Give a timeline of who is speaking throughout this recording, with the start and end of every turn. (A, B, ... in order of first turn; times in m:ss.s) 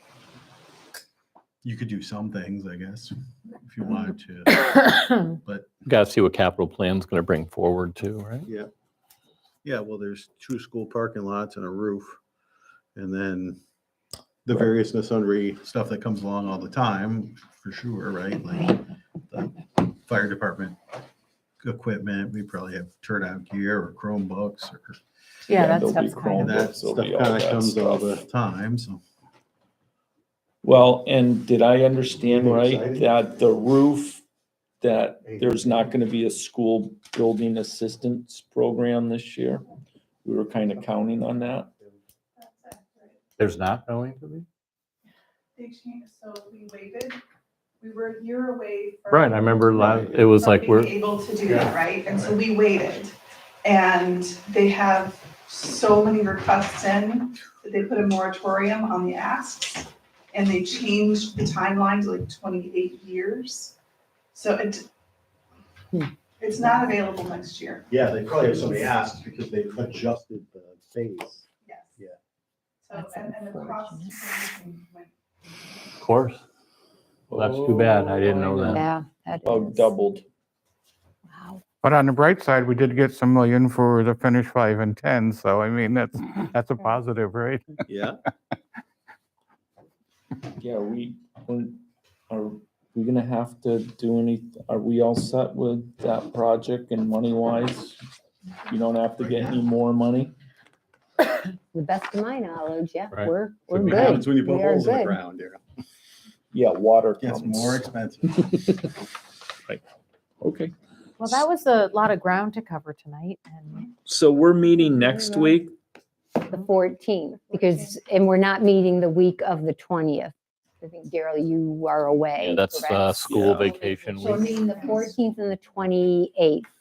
0:01.6-0:05.7 A
0:05.8-0:08.5 B
0:08.5-0:08.7 A
0:09.6-0:12.2 A
0:13.0-0:13.6 A
0:14.4-0:20.8 A
0:21.6-0:25.0 A
0:25.5-0:26.5 C
0:25.5-0:28.2 D
0:26.3-0:29.0 A
0:30.6-0:34.2 D
0:32.2-0:33.2 A
0:34.8-0:39.7 D
0:35.2-0:35.9 A
0:40.2-0:41.7 D
0:42.4-0:43.2 E
0:43.4-0:44.5 B
0:45.6-0:47.2 E
0:47.8-0:49.7 E
0:49.1-0:50.9 B
0:49.8-0:50.2 A
0:50.4-1:03.8 E
1:04.3-1:04.9 E
1:06.4-1:07.9 E
1:07.9-1:12.2 A
1:08.5-1:08.8 E
1:11.6-1:12.0 E
1:12.8-1:15.1 E
1:13.0-1:14.2 F
1:16.0-1:16.4 B
1:17.3-1:18.8 D
1:17.3-1:18.8 B
1:18.7-1:19.9 F
1:19.4-1:20.3 D
1:21.3-1:21.6 F
1:21.8-1:27.9 G
1:27.9-1:28.2 A
1:30.6-1:38.0 D
1:38.7-1:40.3 D
1:39.2-1:39.7 A
1:41.7-1:45.2 F
1:43.1-1:44.1 B
1:43.8-1:45.6 A
1:43.9-1:44.3 D
1:46.5-1:47.9 D
1:47.2-1:48.6 A
1:48.5-1:48.9 D
1:50.4-1:50.7 D
1:51.2-1:53.9 C
1:54.0-1:55.7 D
1:56.5-2:06.7 F
2:02.4-2:04.6 B
2:03.3-2:03.6 D
2:04.0-2:05.1 E